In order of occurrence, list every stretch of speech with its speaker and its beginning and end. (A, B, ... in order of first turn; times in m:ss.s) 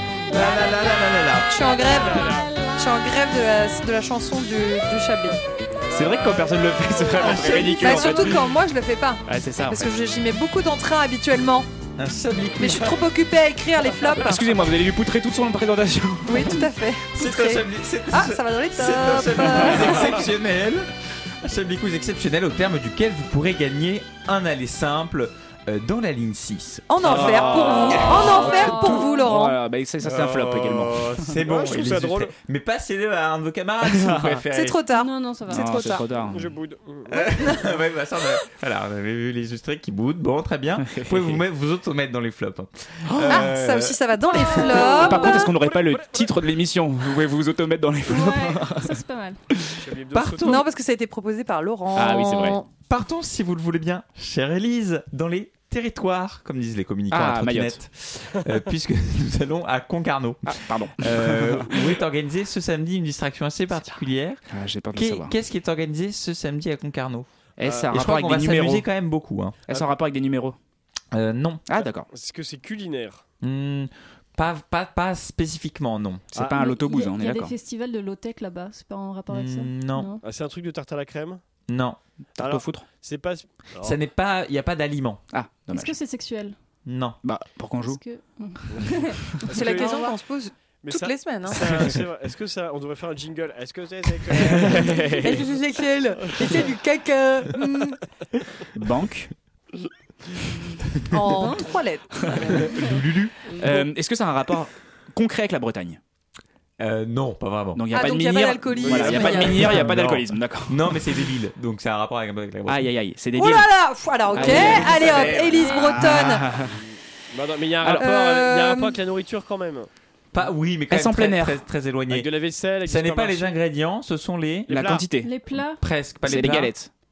0:00.3-0:01.5 A
0:01.5-0:05.4 B
0:02.0-0:02.5 C
0:05.9-0:08.4 D
0:07.2-0:08.3 A
0:07.4-0:07.7 C
0:07.5-0:11.7 B
0:09.3-0:09.9 D
0:12.0-0:13.0 A
0:12.6-0:14.5 B
0:14.2-0:16.6 D
0:16.3-0:20.3 B
0:17.1-0:20.9 A
0:21.4-0:28.6 A
0:26.9-0:29.6 B
0:27.0-0:31.3 D
0:27.1-0:28.3 C
0:28.4-0:29.3 E
0:30.0-0:34.8 A
0:31.3-0:32.3 C
0:33.8-0:34.4 D
0:34.5-0:36.1 B
0:34.9-0:35.9 E
0:35.5-0:36.6 D
0:36.2-0:37.6 C
0:37.1-0:44.7 A
0:40.8-0:41.4 D
0:43.0-0:43.5 D
0:43.3-0:45.5 B
0:44.8-0:49.0 D
0:45.1-0:46.4 C
0:48.1-0:49.4 E
0:49.8-0:50.6 C
0:50.1-0:50.6 A
0:50.4-0:52.7 B
0:51.9-0:52.6 D
0:52.9-1:04.4 A
0:57.1-0:57.8 D
1:00.4-1:02.0 D
1:04.5-1:05.4 D
1:04.9-1:07.3 A
1:07.6-1:08.9 D
1:07.6-1:08.0 C
1:07.9-1:09.6 A
1:09.7-1:10.6 D
1:11.1-1:11.6 A
1:11.7-1:12.1 D
1:12.1-1:13.2 C
1:13.4-1:16.3 A
1:16.3-1:17.5 D
1:16.4-1:20.2 E
1:19.3-1:20.1 A
1:20.2-1:21.4 C
1:21.7-1:22.0 A
1:22.4-1:22.8 D
1:22.4-1:24.0 C
1:23.8-1:25.2 A
1:25.3-1:26.0 D
1:25.7-1:26.6 E
1:26.8-1:27.2 A
1:27.2-1:28.0 D
1:27.8-1:30.1 E
1:29.4-1:30.0 C
1:29.5-1:31.9 B
1:30.8-1:35.2 C
1:34.4-1:35.5 D
1:34.6-1:38.0 B
1:36.3-1:36.6 C
1:38.7-1:39.3 D
1:41.1-1:42.7 B
1:42.2-1:42.6 D
1:42.7-1:43.3 A
1:43.5-1:46.0 D
1:46.8-1:47.8 A
1:47.7-1:51.2 D
1:47.9-1:49.8 B
1:48.8-1:49.9 C
1:49.2-1:52.9 A
1:52.7-1:53.7 D
1:53.3-1:56.4 B
1:54.3-1:56.8 D
1:54.4-1:55.8 A
1:54.8-1:55.4 C
1:55.5-1:56.0 E
1:57.3-1:59.9 C
1:57.8-1:58.1 D
1:58.0-1:59.0 B
2:00.3-2:04.8 A
2:00.9-2:01.6 D
2:02.1-2:03.6 C
2:04.7-2:05.0 C
2:04.7-2:05.3 D
2:05.1-2:05.8 E
2:05.5-2:06.7 A
2:06.2-2:06.9 D